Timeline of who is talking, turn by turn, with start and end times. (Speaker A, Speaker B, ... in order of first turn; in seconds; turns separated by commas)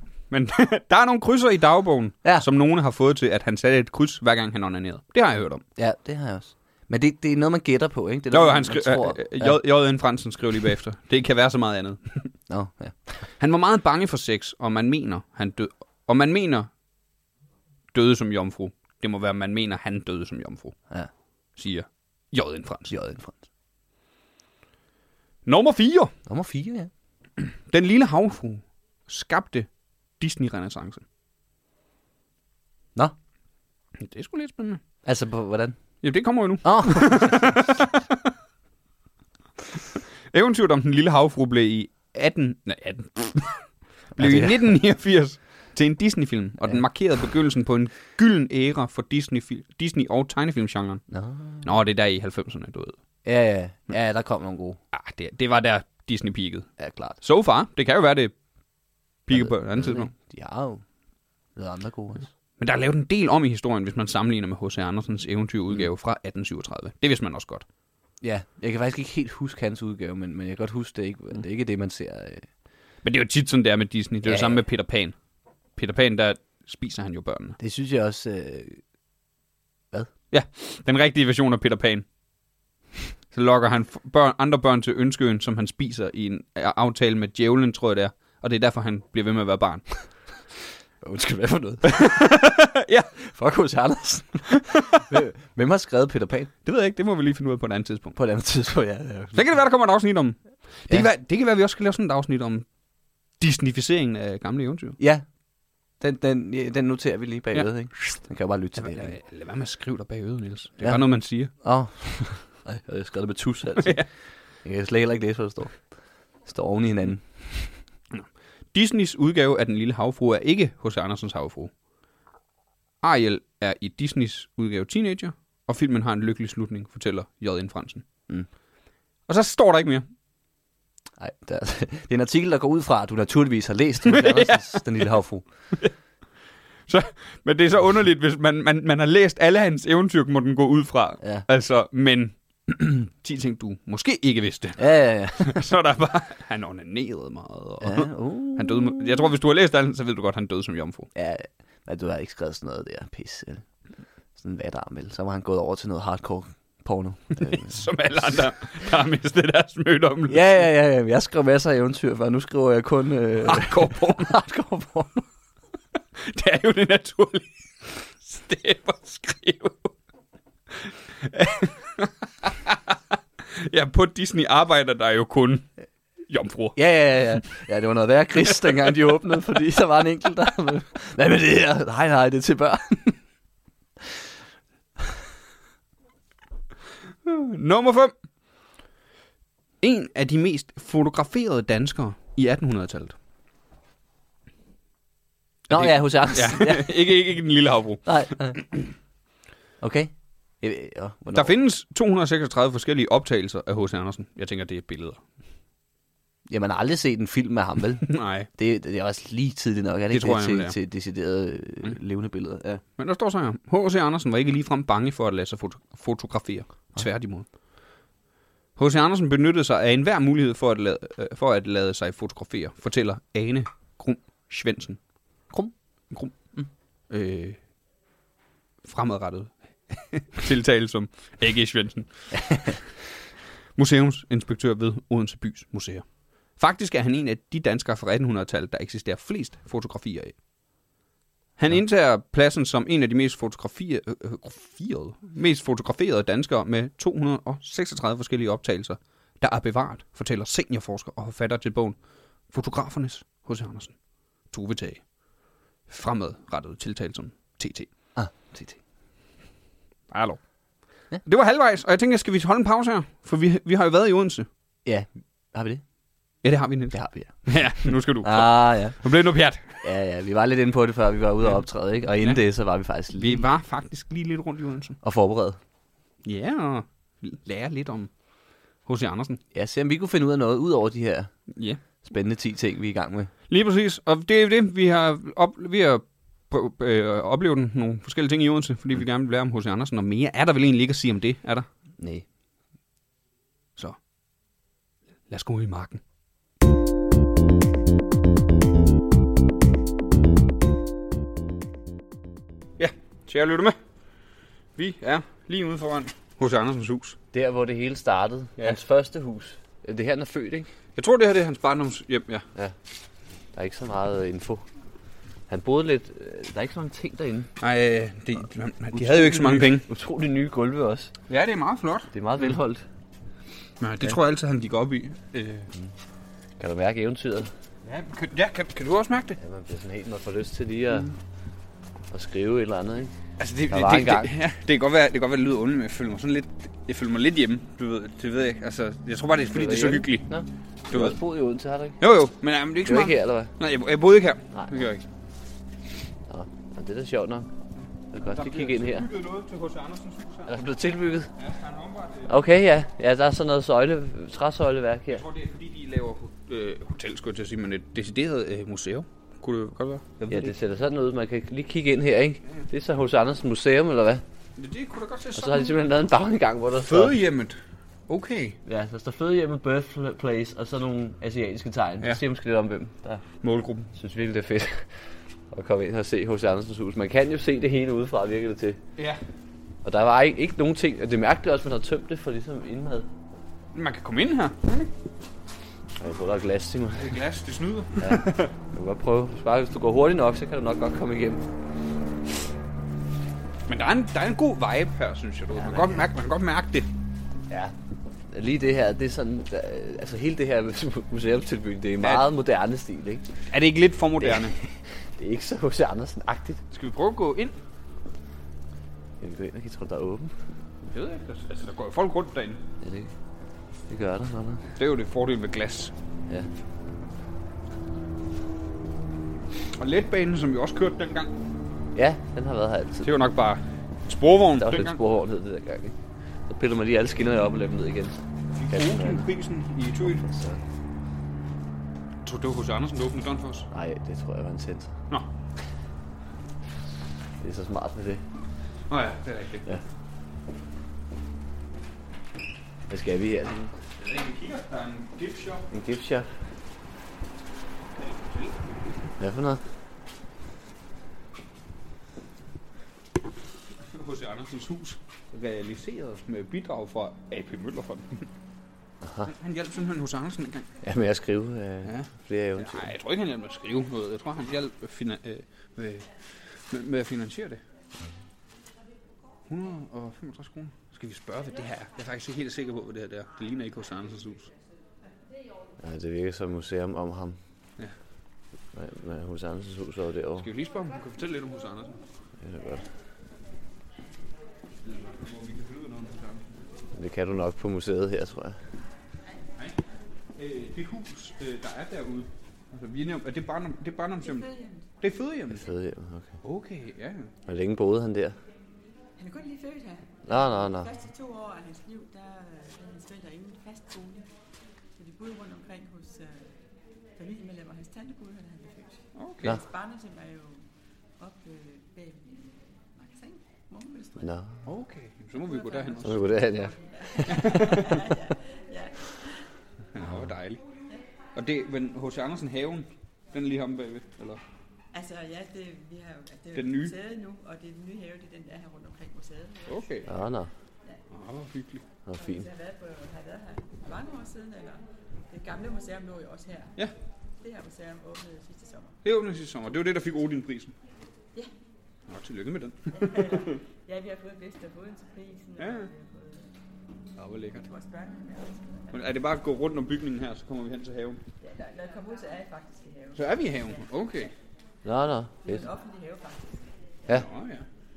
Speaker A: 0.3-5.6, Speaker B: 5.8-9.6, Speaker A: 8.3-12.3, Speaker B: 12.5-13.3, Speaker A: 13.4-16.7, Speaker A: 17.9-20.8, Speaker A: 21.5-22.9, Speaker B: 22.9-23.4, Speaker A: 25.4-26.1, Speaker B: 26.3-26.9, Speaker A: 27.4-31.0, Speaker A: 34.0-34.8, Speaker B: 35.0-35.8, Speaker A: 36.0-38.3, Speaker B: 36.6-37.6, Speaker A: 40.3-51.1, Speaker B: 44.1-44.7, Speaker B: 51.1-51.7, Speaker A: 51.6-53.0, Speaker B: 53.2-54.8, Speaker A: 54.9-58.3, Speaker B: 56.8-57.2, Speaker A: 59.2-60.1, Speaker B: 59.3-60.9, Speaker B: 61.5-62.3, Speaker A: 62.6-67.7, Speaker B: 68.2-72.5, Speaker A: 73.0-75.2, Speaker B: 74.2-74.6, Speaker A: 75.8-77.6, Speaker B: 77.6-78.8, Speaker A: 80.3-82.1, Speaker A: 83.3-89.9, Speaker B: 91.0-92.1, Speaker A: 91.9-93.1, Speaker B: 93.2-96.5, Speaker A: 96.7-98.2, Speaker B: 98.2-99.4, Speaker A: 99.3-102.7, Speaker A: 103.4-105.0, Speaker B: 105.0-105.3, Speaker B: 106.0-109.2, Speaker A: 108.8-111.5, Speaker B: 110.8-115.9, Speaker A: 113.8-114.1, Speaker B: 116.4-117.8, Speaker A: 118.1-121.7, Speaker A: 123.0-128.1, Speaker A: 129.3-130.1, Speaker B: 131.2-135.5, Speaker A: 134.1-134.8, Speaker A: 136.9-144.8, Speaker B: 144.8-145.6, Speaker A: 145.3-151.1, Speaker B: 147.8-149.2, Speaker B: 151.2-153.7, Speaker B: 154.3-157.8, Speaker A: 157.4-160.4, Speaker B: 160.3-165.3, Speaker A: 163.4-164.3, Speaker A: 166.2-169.9, Speaker A: 170.7-173.0, Speaker A: 173.5-175.7, Speaker A: 176.3-176.8, Speaker B: 176.8-183.2, Speaker A: 187.2-188.1, Speaker A: 189.8-193.2, Speaker B: 195.7-197.0, Speaker A: 195.7-198.1, Speaker B: 198.1-198.7, Speaker B: 199.8-201.5, Speaker A: 201.3-205.2, Speaker B: 206.5-212.8, Speaker A: 208.0-208.5, Speaker A: 210.1-210.8, Speaker A: 213.0-217.5, Speaker A: 218.8-225.0, Speaker A: 226.1-226.6, Speaker A: 227.1-227.6, Speaker A: 228.8-232.8, Speaker B: 232.3-232.8, Speaker A: 233.8-240.4, Speaker A: 241.6-252.0, Speaker A: 252.5-254.0, Speaker A: 254.5-255.1, Speaker A: 255.9-257.9, Speaker B: 258.2-258.8, Speaker A: 260.1-260.4, Speaker A: 261.2-264.5, Speaker B: 264.9-265.8, Speaker A: 266.4-269.8, Speaker B: 266.9-269.0, Speaker B: 269.8-273.4, Speaker A: 273.2-275.0, Speaker B: 275.0-275.6, Speaker A: 276.2-278.1, Speaker A: 278.9-279.4, Speaker B: 279.5-281.3, Speaker A: 281.5-281.8, Speaker B: 282.0-283.3, Speaker A: 283.5-291.7, Speaker B: 292.0-292.2, Speaker A: 295.3-296.0, Speaker A: 302.8-303.8, Speaker A: 304.8-307.2, Speaker B: 307.3-310.7, Speaker A: 311.0-312.4, Speaker B: 313.5-314.6, Speaker B: 315.5-317.5, Speaker A: 317.6-319.9, Speaker B: 318.9-321.1, Speaker A: 321.3-322.1, Speaker B: 322.1-322.8, Speaker A: 323.8-325.7, Speaker B: 326.6-327.5, Speaker A: 327.8-329.4, Speaker B: 329.4-331.1, Speaker B: 332.1-333.1, Speaker A: 333.4-340.2, Speaker B: 333.7-334.3, Speaker B: 339.5-342.0, Speaker A: 340.9-341.2, Speaker A: 342.0-345.0, Speaker B: 342.9-343.5, Speaker B: 346.3-347.5, Speaker B: 348.1-349.1, Speaker A: 348.2-350.5, Speaker B: 350.5-351.3, Speaker A: 351.4-352.4, Speaker B: 352.3-355.2, Speaker A: 355.1-360.6, Speaker B: 360.3-364.2, Speaker A: 364.6-365.8, Speaker B: 365.4-367.2, Speaker A: 366.8-368.6, Speaker B: 368.6-373.2, Speaker A: 373.4-373.9, Speaker B: 373.9-374.9, Speaker B: 375.5-378.8, Speaker B: 379.8-383.1, Speaker A: 383.7-384.9, Speaker B: 386.0-387.1, Speaker A: 387.0-388.5, Speaker B: 388.0-391.4, Speaker A: 393.7-396.9, Speaker B: 398.3-403.2, Speaker A: 402.0-402.3, Speaker A: 403.5-404.6, Speaker B: 404.2-406.6, Speaker A: 406.7-407.6, Speaker B: 409.2-410.4, Speaker A: 410.9-412.6, Speaker B: 412.8-413.1, Speaker B: 413.9-414.7, Speaker A: 414.8-415.9, Speaker A: 419.8-421.3, Speaker B: 421.9-423.1, Speaker A: 423.0-425.0, Speaker B: 424.6-426.0, Speaker B: 426.5-429.3, Speaker A: 428.6-430.2, Speaker B: 430.0-430.6, Speaker A: 432.2-433.7, Speaker B: 433.7-434.9, Speaker B: 437.4-438.2, Speaker A: 438.9-439.7, Speaker B: 442.9-443.7, Speaker A: 444.0-445.7, Speaker B: 445.7-446.3, Speaker A: 447.9-448.7, Speaker B: 449.2-449.6, Speaker A: 453.8-458.3, Speaker B: 459.0-459.3, Speaker A: 459.3-460.7, Speaker B: 460.8-462.9, Speaker A: 461.9-467.6, Speaker A: 469.5-474.5, Speaker B: 475.8-477.4, Speaker B: 478.7-480.5, Speaker A: 480.4-482.0, Speaker B: 482.4-482.9, Speaker A: 484.8-486.6, Speaker B: 486.9-488.6, Speaker A: 490.4-494.5, Speaker C: 494.2-494.9, Speaker A: 495.0-495.7, Speaker B: 495.5-496.4, Speaker A: 496.4-497.3, Speaker B: 497.5-498.4, Speaker C: 499.2-504.3, Speaker B: 500.3-500.9, Speaker C: 505.0-506.5, Speaker C: 507.2-510.7, Speaker A: 509.1-509.6, Speaker C: 511.2-514.3, Speaker B: 514.2-514.6, Speaker A: 514.6-516.2, Speaker C: 515.5-519.5, Speaker B: 516.0-517.5, Speaker A: 517.2-518.0, Speaker A: 519.9-520.6, Speaker A: 521.4-524.4, Speaker C: 524.9-530.0, Speaker A: 526.5-527.0, Speaker A: 529.7-530.1, Speaker B: 530.1-530.5, Speaker A: 531.1-531.9, Speaker B: 532.1-532.5, Speaker C: 532.2-536.8, Speaker C: 537.4-539.0, Speaker A: 539.0-540.8, Speaker A: 542.1-543.6, Speaker C: 542.9-546.5, Speaker A: 545.6-545.9, Speaker A: 547.2-547.7, Speaker C: 547.6-549.0, Speaker A: 548.9-551.2, Speaker C: 551.4-553.7, Speaker A: 553.1-554.3, Speaker B: 554.9-555.7, Speaker C: 555.5-556.7, Speaker A: 557.1-557.7